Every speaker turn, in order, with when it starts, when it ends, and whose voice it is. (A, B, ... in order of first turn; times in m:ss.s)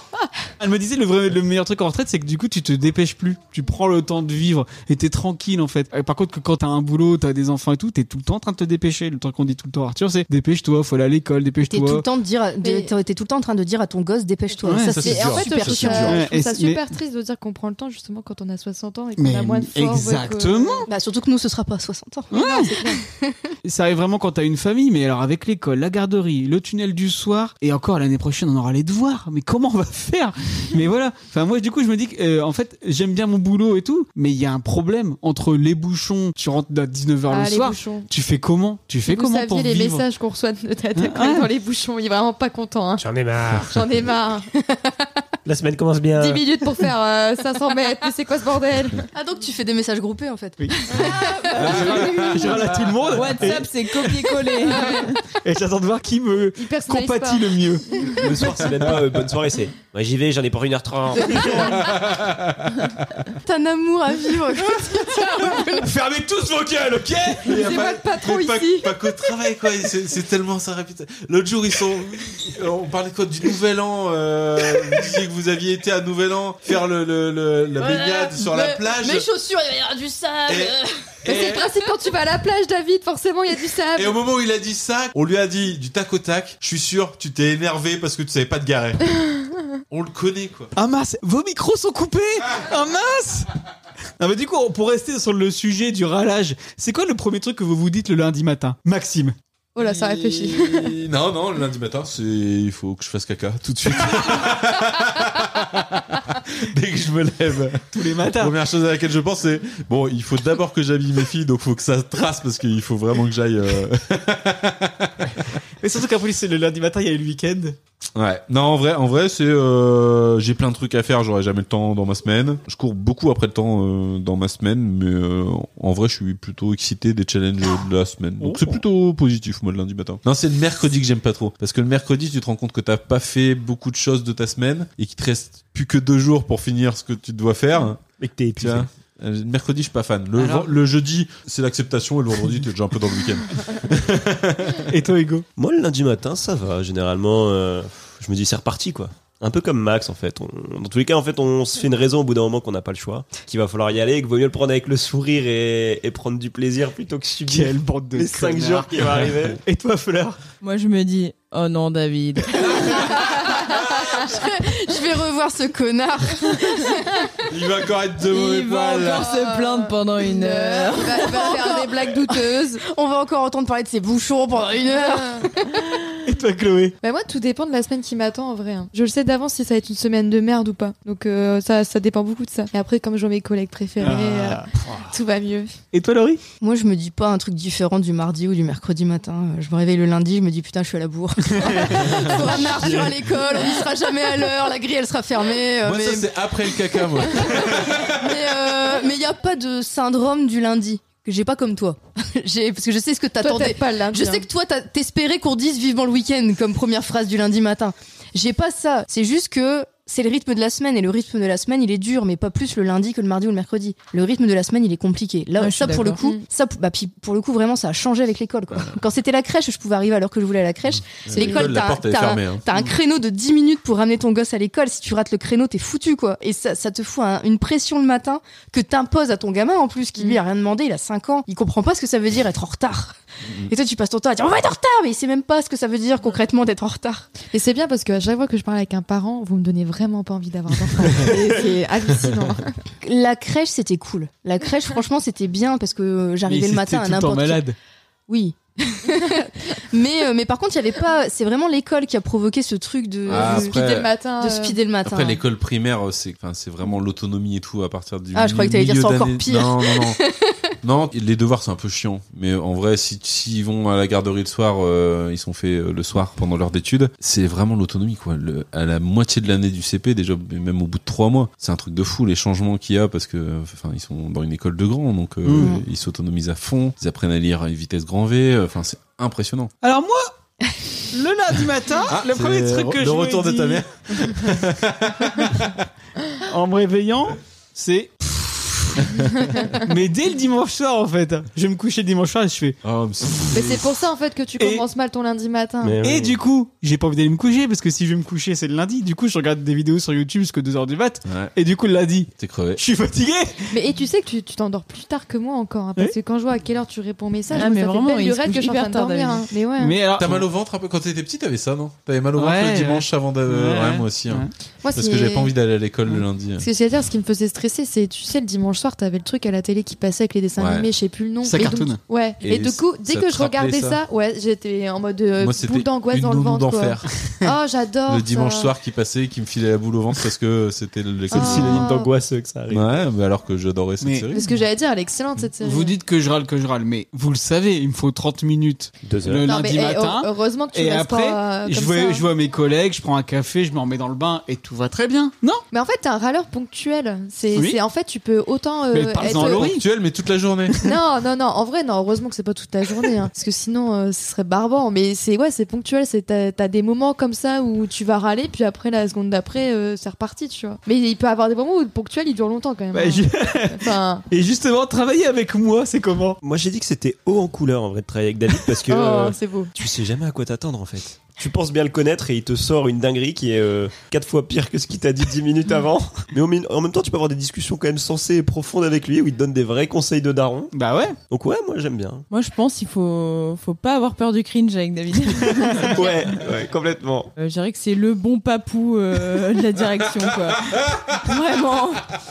0:00.6-0:12.0 A
0:11.7-0:16.2 B
0:12.6-0:12.9 C
0:14.7-0:15.0 A
0:14.9-0:16.2 D
0:15.0-0:20.9 C
0:16.1-0:16.8 A
0:19.2-0:20.9 A
0:20.9-0:22.3 B
0:22.3-0:22.8 A
0:22.3-0:23.0 C
0:23.0-0:23.4 B
0:23.6-0:40.0 A
0:37.3-0:38.1 C
0:39.1-0:44.5 C
0:41.0-0:41.5 A
0:43.0-0:43.8 E
0:45.4-0:46.4 E
0:46.2-0:49.1 C
0:49.1-0:52.7 B
0:50.6-0:53.7 A
0:51.6-0:52.6 D
0:53.1-0:55.2 F
0:54.7-0:55.1 C
0:55.4-0:58.9 A
0:56.6-0:58.2 C
0:58.1-1:01.8 E
1:01.3-1:01.7 C
1:01.8-1:02.9 D
1:03.4-1:05.8 B
1:05.6-1:07.6 A
1:07.4-1:19.3 D
1:07.6-1:08.9 C
1:17.8-1:21.6 B
1:20.5-1:21.7 D
1:21.3-1:24.2 C
1:24.0-1:29.0 D
1:29.9-1:30.7 D
1:30.8-1:33.5 A
1:34.2-1:39.4 A
1:39.8-1:41.0 C
1:39.8-1:55.3 D
1:47.9-1:48.6 A
1:55.8-1:57.8 A
1:58.2-2:18.0 D
2:08.4-2:08.8 A
2:18.2-2:18.9 E
2:18.6-2:24.9 D
2:20.4-2:20.7 A
2:24.9-2:25.5 A
2:25.6-2:39.6 E
2:37.5-2:40.4 A
2:40.6-2:43.2 F
2:43.1-2:47.3 B
2:47.5-2:49.3 D
2:48.3-2:51.5 F
2:49.2-2:52.8 C
2:51.2-2:55.9 B
2:54.9-2:55.5 C
2:56.2-2:57.0 A
2:57.0-3:05.7 C
3:04.0-3:05.0 A
3:05.9-3:06.4 A
3:06.6-3:16.6 B
3:11.6-3:12.2 A
3:15.8-3:18.6 D
3:17.3-3:57.3 B
3:23.4-3:24.4 C
3:35.6-3:36.2 F
3:41.1-3:42.8 D
3:41.4-3:41.7 C
3:53.4-3:53.7 D
3:57.5-4:02.8 C
4:03.0-4:07.6 B
4:06.5-4:07.8 A
4:08.3-4:13.8 B
4:09.1-4:09.4 C
4:13.3-4:14.1 D
4:13.3-4:14.8 C
4:14.4-4:15.4 B
4:15.0-4:20.2 D
4:18.3-4:20.6 B
4:20.8-4:39.7 D
4:35.4-4:35.7 A
4:35.6-4:35.8 B
4:39.8-4:40.3 A
4:41.1-4:43.8 A
4:42.1-4:45.9 D
4:46.4-4:52.8 A
4:52.8-4:53.8 D
4:53.5-4:56.0 C
4:54.6-4:54.8 A
4:55.8-4:56.4 E
4:56.0-5:03.7 A
5:01.3-5:01.5 D
5:02.4-5:02.8 D
5:03.7-5:10.0 C
5:07.5-5:09.5 F
5:09.8-5:10.5 A
5:10.2-5:16.6 D
5:12.4-5:14.5 A
5:14.8-5:15.5 C
5:16.6-5:28.7 C
5:20.6-5:20.9 D
5:21.4-5:22.0 A
5:22.4-5:24.0 D
5:25.4-5:27.1 D
5:28.1-5:31.9 D
5:31.3-5:32.1 C
5:31.3-5:32.9 E
5:32.7-5:34.4 D
5:34.0-5:34.4 A
5:34.3-5:36.0 C
5:35.6-5:45.6 A
5:39.0-5:39.5 E
5:39.5-5:42.3 C
5:45.7-5:49.7 C
5:48.9-5:49.8 A
5:49.4-5:50.8 D
5:50.8-6:04.2 C
6:02.9-6:06.4 A
6:06.4-6:20.7 E
6:08.8-6:09.7 C
6:20.7-6:21.2 A
6:21.3-6:22.3 E
6:22.3-6:26.4 F
6:25.8-6:27.3 E
6:27.4-6:32.1 F
6:30.8-6:31.0 D